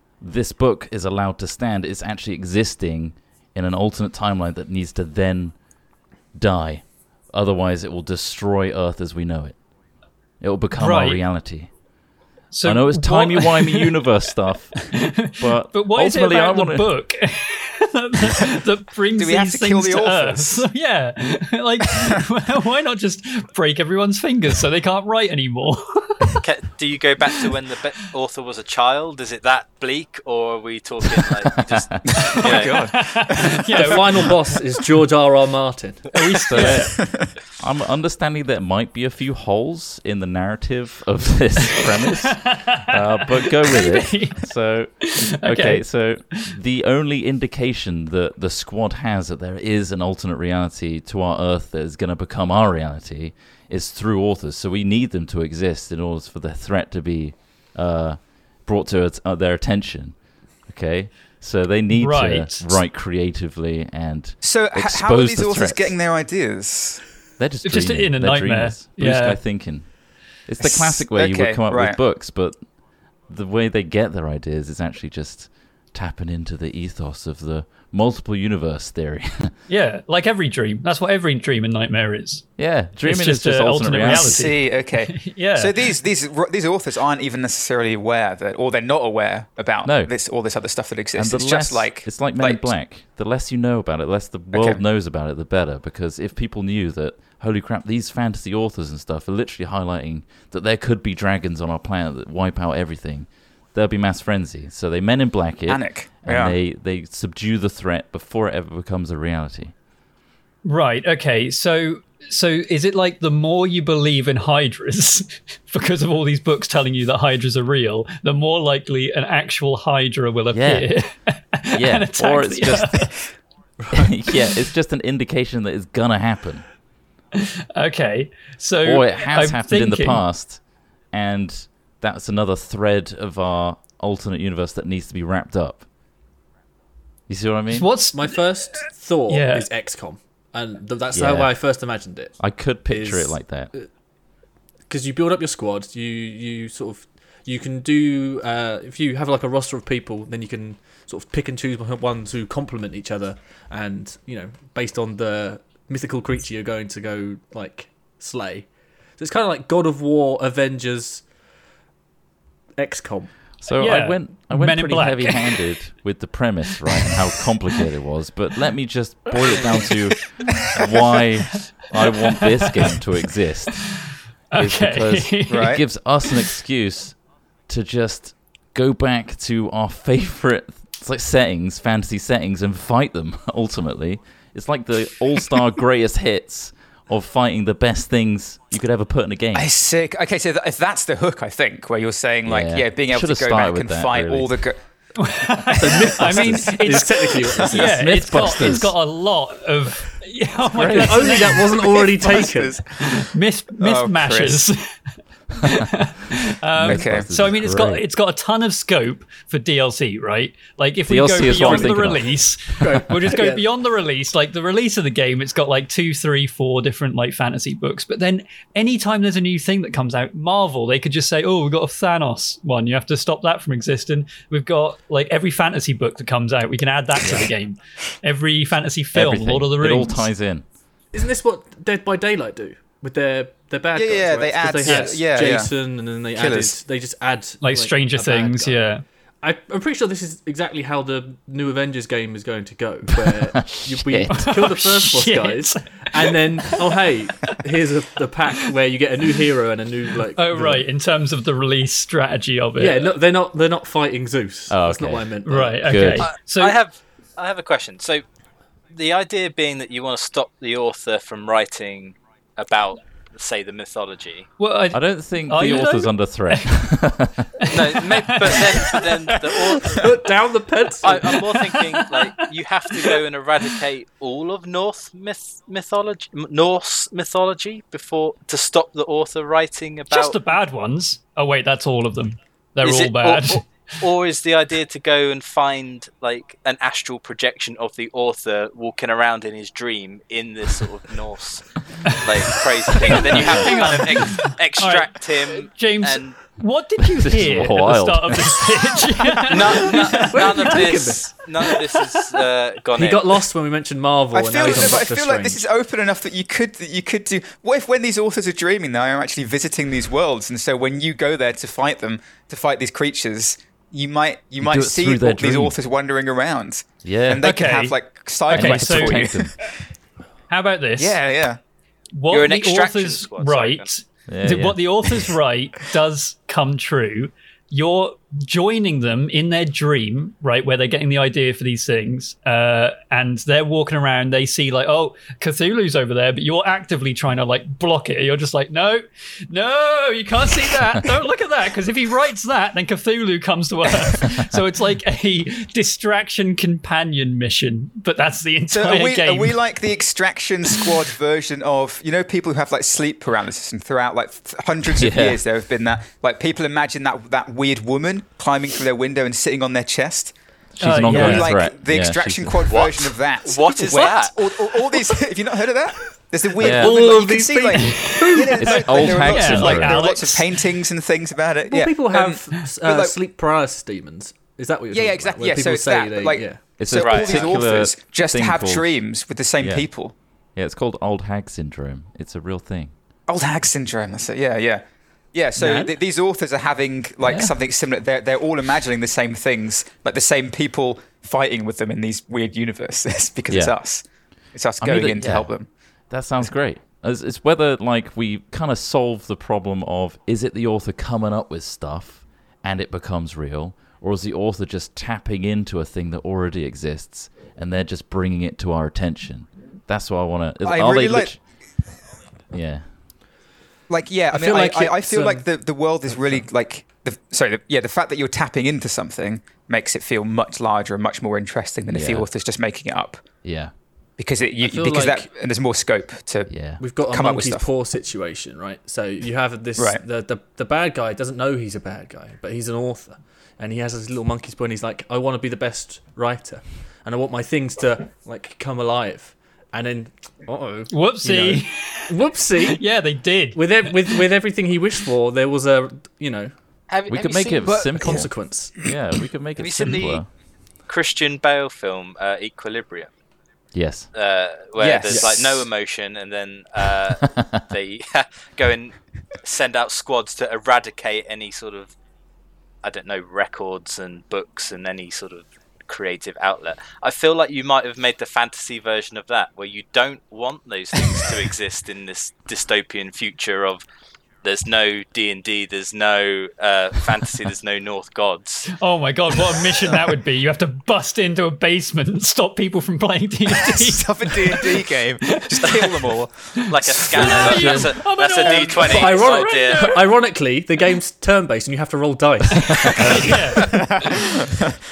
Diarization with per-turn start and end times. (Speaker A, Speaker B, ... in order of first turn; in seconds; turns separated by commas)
Speaker A: 0.2-5.5, Speaker A: 6.3-9.6, Speaker A: 10.4-11.7, Speaker B: 10.8-11.2, Speaker B: 12.5-14.0, Speaker A: 12.6-16.9, Speaker B: 14.8-26.4, Speaker C: 19.2-20.7, Speaker D: 26.4-32.9, Speaker A: 31.6-31.9, Speaker C: 32.1-33.8, Speaker B: 32.2-34.4, Speaker E: 33.8-36.2, Speaker B: 36.1-36.9, Speaker A: 36.5-60.1, Speaker C: 36.6-37.3, Speaker B: 41.7-44.4, Speaker B: 45.0-45.8, Speaker A: 60.7-66.0, Speaker B: 61.9-62.7, Speaker C: 64.4-67.0, Speaker A: 67.4-69.9, Speaker B: 67.6-69.4, Speaker A: 70.5-72.6, Speaker C: 70.6-72.0, Speaker A: 73.3-79.5, Speaker B: 79.7-82.4, Speaker A: 82.6-84.5, Speaker B: 83.0-85.9, Speaker C: 84.1-92.7, Speaker A: 89.8-90.1, Speaker A: 91.1-109.7, Speaker C: 94.5-94.8, Speaker C: 105.7-106.6, Speaker B: 110.7-123.1, Speaker A: 120.5-120.9, Speaker A: 121.7-123.1, Speaker A: 123.9-126.7, Speaker B: 127.3-130.2, Speaker A: 128.8-130.6, Speaker A: 131.1-135.8, Speaker A: 137.3-137.9, Speaker B: 137.7-139.7, Speaker E: 138.1-143.9, Speaker A: 141.1-141.5, Speaker A: 142.4-143.7, Speaker E: 144.9-161.3, Speaker E: 162.8-163.3, Speaker A: 163.6-173.8, Speaker B: 163.8-165.5, Speaker B: 172.1-172.9, Speaker B: 173.9-175.8, Speaker A: 174.6-177.2, Speaker C: 175.5-175.8, Speaker A: 177.7-189.7, Speaker C: 189.5-194.8, Speaker A: 192.4-194.6, Speaker B: 195.2-204.9, Speaker E: 195.8-198.4, Speaker A: 196.2-196.7, Speaker A: 197.8-198.9, Speaker C: 200.8-204.7, Speaker E: 200.8-202.8, Speaker B: 205.6-230.3, Speaker A: 206.7-208.0, Speaker C: 206.8-207.3, Speaker A: 211.1-212.4, Speaker E: 211.7-211.9, Speaker E: 212.8-213.7, Speaker A: 227.2-227.5, Speaker A: 229.1-230.7, Speaker E: 231.1-238.8, Speaker C: 233.9-235.8, Speaker B: 234.8-235.1, Speaker C: 236.3-236.8, Speaker B: 237.6-239.0, Speaker E: 239.4-250.8, Speaker A: 243.2-244.5, Speaker B: 244.3-247.6, Speaker B: 250.3-253.2, Speaker E: 252.8-256.2, Speaker A: 254.7-256.3, Speaker B: 255.4-256.8, Speaker D: 256.2-258.2, Speaker D: 258.9-264.5, Speaker B: 264.6-266.7, Speaker A: 264.9-267.5, Speaker B: 267.6-270.0, Speaker D: 267.7-270.2, Speaker E: 269.9-271.4, Speaker D: 271.0-280.4, Speaker B: 271.1-273.7, Speaker B: 280.1-283.6, Speaker D: 282.8-296.4, Speaker B: 292.0-300.7, Speaker A: 297.0-298.7, Speaker D: 299.5-303.4, Speaker E: 300.1-301.4, Speaker E: 302.9-305.6, Speaker C: 304.3-319.6, Speaker A: 314.6-315.8, Speaker A: 317.0-317.5, Speaker B: 317.4-317.9, Speaker B: 318.5-319.3, Speaker A: 318.5-319.5, Speaker B: 320.5-321.2, Speaker C: 321.0-321.6, Speaker B: 322.1-349.6, Speaker D: 322.3-323.9, Speaker A: 324.3-324.8, Speaker C: 348.7-360.3, Speaker A: 354.9-355.4, Speaker A: 360.8-362.7, Speaker B: 360.8-361.5, Speaker C: 361.0-373.2, Speaker D: 362.6-364.5, Speaker E: 366.6-368.9, Speaker A: 366.6-367.0, Speaker B: 367.8-370.6, Speaker A: 368.6-370.0, Speaker E: 371.7-376.8, Speaker C: 374.9-380.1, Speaker A: 376.8-379.0, Speaker D: 376.9-377.6, Speaker A: 379.6-379.9, Speaker A: 380.6-382.9, Speaker C: 383.3-395.7, Speaker E: 385.6-385.9, Speaker A: 387.2-387.6, Speaker A: 393.5-393.8, Speaker A: 394.8-395.5, Speaker A: 396.1-411.4, Speaker C: 410.6-411.3, Speaker A: 412.5-412.8, Speaker C: 413.9-423.2, Speaker E: 414.3-415.4, Speaker E: 416.1-416.4, Speaker A: 421.9-422.3, Speaker A: 423.4-423.7, Speaker C: 424.2-427.7, Speaker E: 424.6-425.3, Speaker A: 426.5-426.8, Speaker E: 426.8-442.8, Speaker C: 429.8-430.0, Speaker B: 440.9-444.2, Speaker E: 443.6-446.5, Speaker D: 446.9-447.8, Speaker A: 447.1-450.3, Speaker C: 447.5-448.2, Speaker E: 447.9-448.8, Speaker D: 449.6-450.2, Speaker D: 450.9-453.1, Speaker A: 453.7-454.1, Speaker D: 454.1-461.9, Speaker C: 454.8-455.6, Speaker E: 455.1-455.4, Speaker A: 457.2-457.6, Speaker D: 462.8-473.8, Speaker D: 474.4-478.7, Speaker B: 478.7-490.0, Speaker C: 483.5-487.8, Speaker D: 486.7-489.9, Speaker E: 487.4-487.9, Speaker C: 488.4-488.9, Speaker E: 488.8-493.9, Speaker B: 492.5-494.3, Speaker C: 493.1-494.8